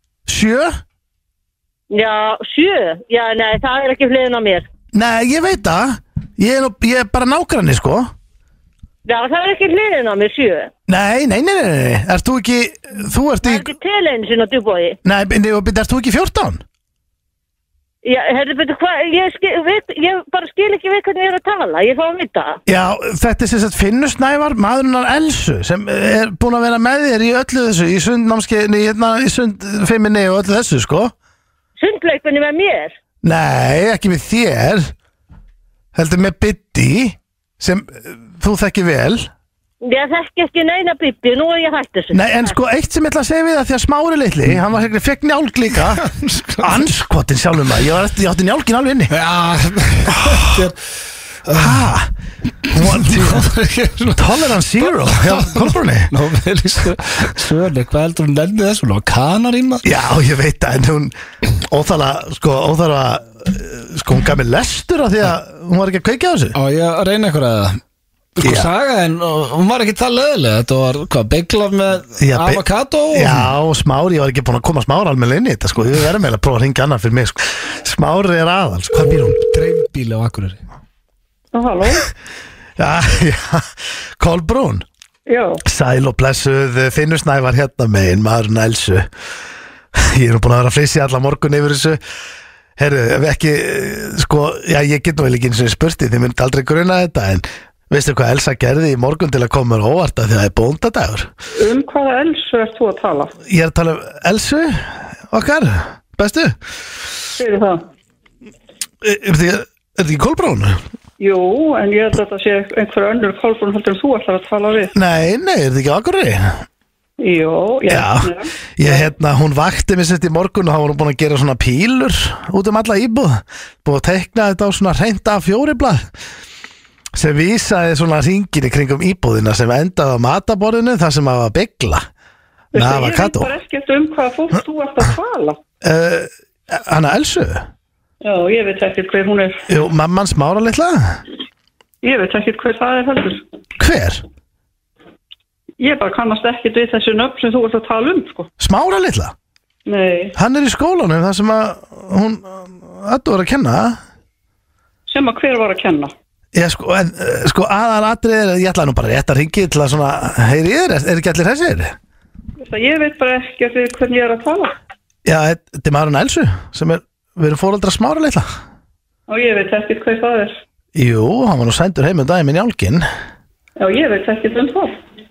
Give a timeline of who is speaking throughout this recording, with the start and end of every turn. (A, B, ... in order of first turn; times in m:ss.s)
0:00.3-0:00.8 A
0:01.9-0:04.6 B
0:04.9-0:08.1 A
0:09.1-0:10.7 B
0:10.9-0:13.7 A
0:13.4-0:15.0 B
0:15.0-0:16.6 A
0:18.0-0:22.6 B
0:22.6-0:31.1 A
0:31.8-0:32.9 B
0:33.2-0:34.9 A
0:35.9-0:39.3 A
0:39.8-0:42.2 B
0:42.1-0:46.1 A
0:46.0-0:46.8 C
0:46.6-0:49.1 A
0:49.1-0:50.8 C
0:50.1-0:50.6 A
0:51.4-0:51.8 C
0:51.5-0:52.1 A
0:52.7-0:53.5 A
0:52.7-0:59.9 C
0:54.2-0:56.1 A
0:59.8-1:06.6 A
1:06.5-1:07.8 C
1:08.4-1:13.5 C
1:08.4-1:08.7 A
1:12.2-1:19.3 A
1:19.3-1:20.6 C
1:21.5-1:22.1 D
1:22.8-1:24.8 A
1:25.3-1:25.6 D
1:25.6-1:29.1 A
1:29.9-1:32.0 A
1:32.8-1:41.3 A
1:41.6-1:43.3 D
1:43.4-1:46.6 A
1:47.4-1:47.8 D
1:49.0-1:50.8 A
1:51.2-1:54.9 D
1:54.9-1:56.6 A
1:57.2-1:59.1 D
1:57.9-2:06.1 A
2:07.1-2:12.1 A
2:12.7-2:15.6 D
2:12.7-2:13.5 A
2:15.8-2:17.6 A
2:18.2-2:19.6 D
2:19.7-2:21.2 A
2:22.0-2:23.4 D
2:23.8-2:24.2 A
2:25.8-2:28.5 D
2:28.6-2:29.3 A
2:29.8-2:30.3 D
2:30.4-2:34.0 A
2:35.1-2:36.1 D
2:36.5-2:41.9 A
2:42.6-2:44.7 D
2:45.2-2:48.5 A
2:49.3-2:50.6 D
2:50.9-2:53.0 A
2:53.8-2:55.0 D